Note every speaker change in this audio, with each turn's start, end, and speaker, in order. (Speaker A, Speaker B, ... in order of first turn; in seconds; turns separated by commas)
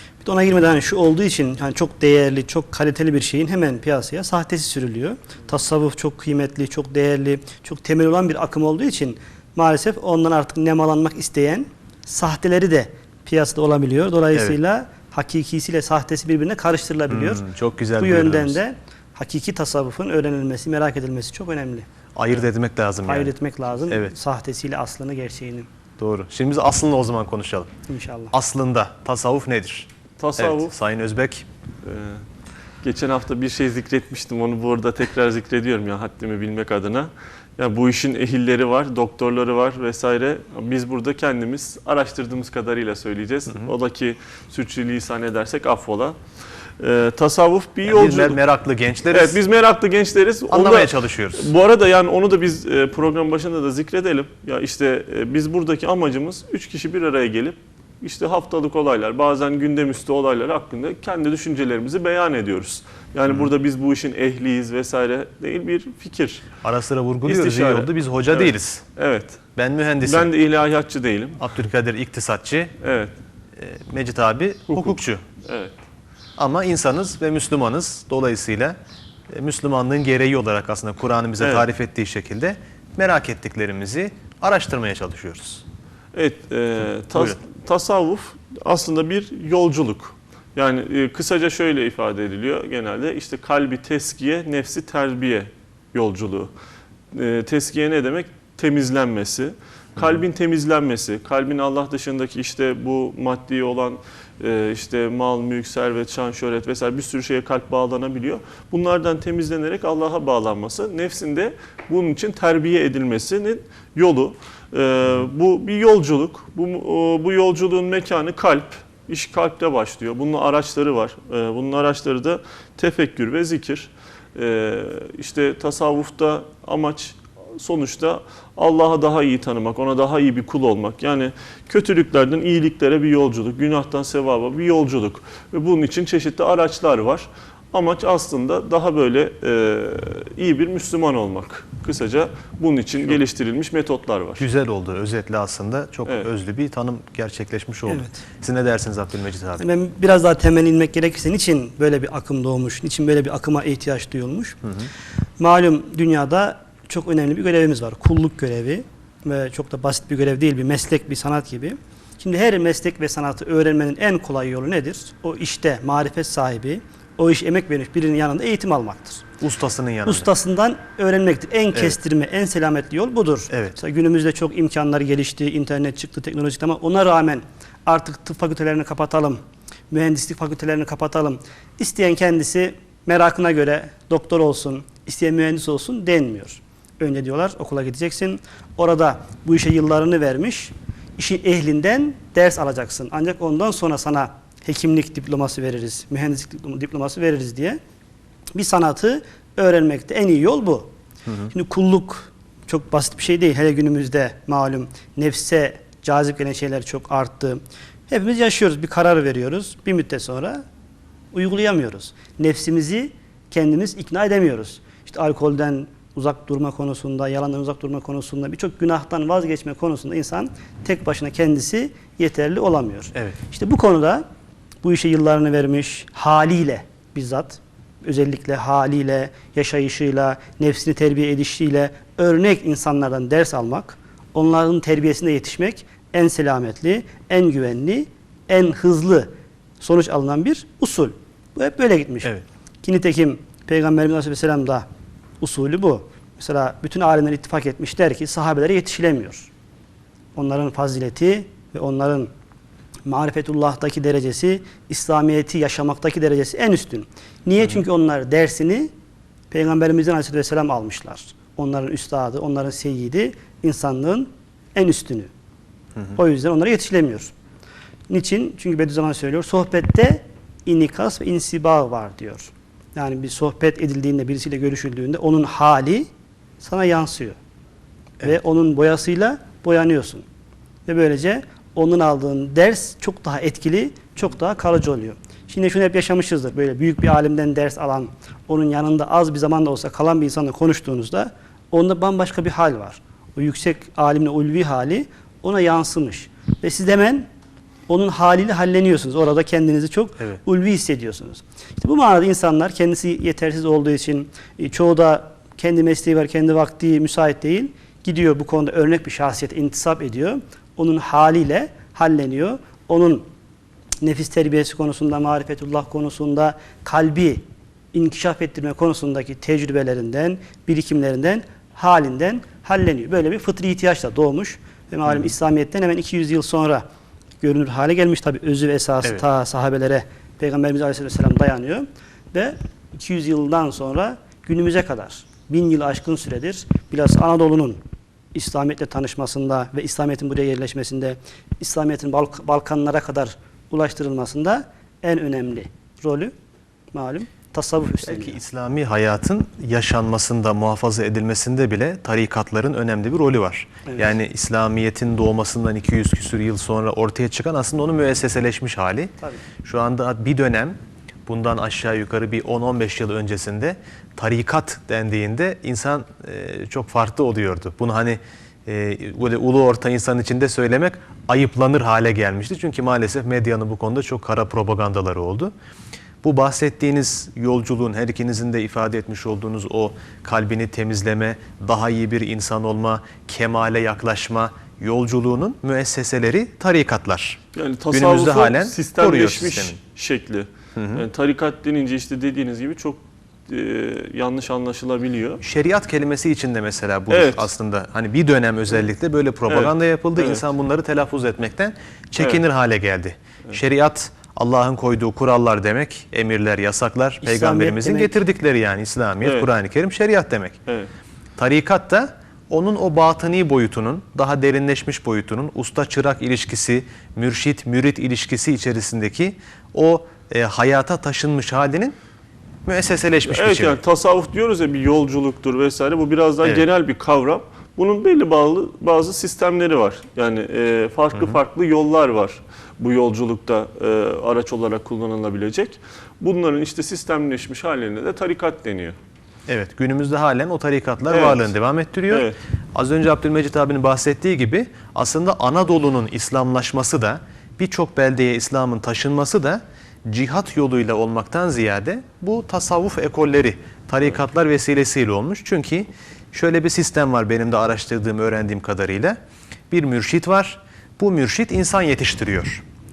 Speaker A: 0.2-17.4, Speaker B: 17.1-18.6, Speaker A: 18.0-21.9, Speaker B: 22.1-23.3, Speaker A: 23.1-25.7, Speaker B: 26.0-27.7, Speaker A: 27.9-28.3, Speaker B: 28.3-31.4, Speaker C: 30.2-30.7, Speaker C: 31.8-32.2, Speaker C: 32.8-46.2, Speaker C: 46.8-48.4, Speaker B: 47.8-49.4, Speaker C: 49.1-66.4, Speaker B: 50.5-51.5, Speaker B: 66.6-68.8, Speaker C: 67.2-69.4, Speaker B: 69.5-70.3, Speaker C: 70.0-71.4, Speaker B: 71.4-72.7, Speaker C: 72.8-73.1, Speaker B: 73.6-75.2, Speaker C: 74.7-75.8, Speaker B: 76.4-78.8, Speaker B: 79.3-85.6, Speaker C: 81.4-81.7, Speaker C: 86.1-96.5, Speaker B: 87.1-87.4, Speaker C: 97.1-144.4, Speaker B: 144.4-149.6, Speaker A: 147.8-148.2, Speaker A: 149.6-154.6, Speaker B: 154.6-154.9, Speaker A: 155.4-169.2, Speaker B: 169.4-170.3, Speaker A: 170.0-197.8, Speaker B: 173.5-173.8, Speaker A: 198.5-200.9, Speaker B: 201.3-201.5, Speaker A: 201.5-210.6, Speaker A: 211.3-224.2, Speaker A: 224.8-242.3, Speaker A: 242.8-244.8, Speaker A: 245.4-249.5, Speaker A: 250.3-252.3, Speaker A: 253.1-258.9, Speaker A: 259.5-265.3, Speaker A: 266.1-267.3, Speaker A: 268.1-276.1, Speaker A: 276.6-277.4, Speaker A: 278.2-280.2, Speaker A: 280.9-297.3, Speaker A: 297.9-313.3, Speaker A: 314.0-326.8, Speaker A: 327.4-337.8, Speaker A: 338.3-346.3, Speaker A: 346.9-348.4, Speaker B: 348.0-359.1, Speaker B: 359.6-375.5, Speaker B: 376.2-387.4, Speaker C: 387.5-395.4, Speaker B: 387.9-389.8, Speaker B: 390.7-391.0, Speaker B: 395.4-410.6, Speaker C: 397.1-397.5, Speaker C: 399.5-400.4, Speaker A: 407.2-408.2, Speaker C: 409.2-409.5, Speaker B: 411.4-421.9, Speaker B: 422.6-423.8, Speaker C: 423.2-439.0, Speaker B: 431.1-431.4, Speaker B: 439.5-459.2, Speaker C: 441.1-441.5, Speaker C: 442.1-442.4, Speaker B: 459.7-462.6